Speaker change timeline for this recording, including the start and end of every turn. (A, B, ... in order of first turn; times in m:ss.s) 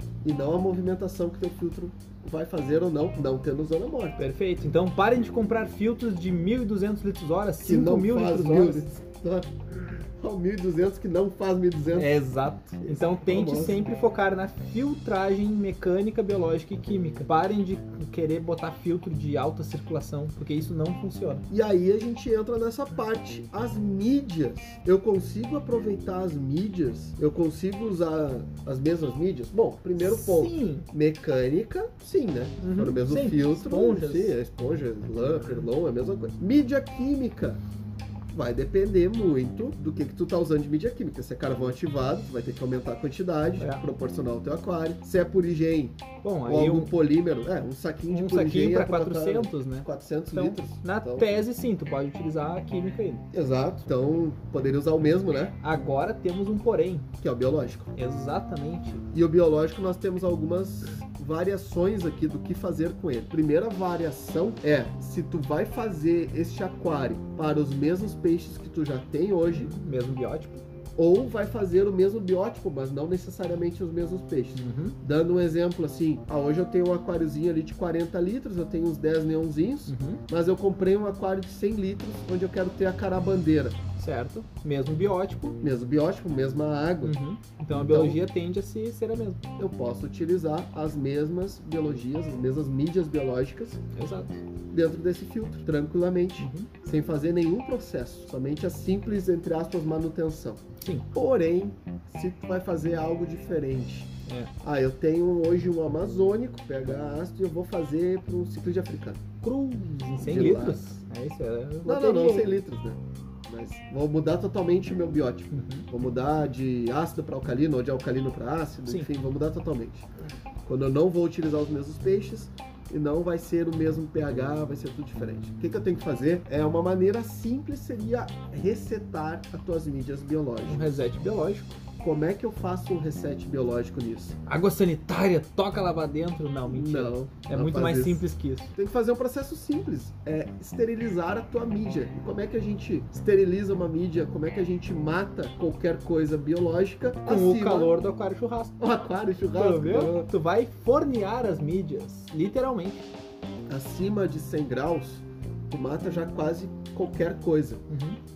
0:00.2-0:04.3 A
0:04.2-0:08.9 B
0:07.6-0:09.5 A
0:10.2-0:12.2 A
0:12.0-0:21.5 B
0:12.8-0:13.8 A
0:21.5-0:37.6 A
0:30.0-0:30.9 B
0:32.6-0:34.4 B
0:38.3-0:51.3 A
0:43.6-0:43.8 B
0:46.2-0:46.9 B
0:48.1-0:53.3 B
0:53.3-0:55.6 A
0:55.6-0:57.1 B
0:57.2-0:57.9 A
0:58.0-0:59.0 B
0:59.1-1:09.7 A
1:09.5-1:10.6 B
1:11.0-1:23.8 A
1:14.6-1:15.0 B
1:19.9-1:20.2 B
1:24.0-1:25.6 B
1:25.6-1:27.2 A
1:27.0-1:29.4 B
1:27.7-1:28.2 A
1:29.6-1:33.8 A
1:34.0-1:34.4 B
1:34.7-1:44.1 A
1:36.4-1:36.7 B
1:40.8-1:41.1 B
1:44.6-1:49.2 A
1:49.4-1:52.5 B
1:50.2-1:50.9 A
1:51.9-2:00.1 A
1:55.5-1:55.9 B
2:00.7-2:11.1 A
2:10.7-2:11.8 B
2:12.0-2:14.4 A
2:14.5-2:18.7 B
2:16.7-2:18.2 A
2:18.8-2:28.0 A
2:27.3-2:28.7 B
2:28.8-2:30.3 A
2:29.6-2:33.1 B
2:33.7-2:37.8 A
2:37.9-2:38.2 B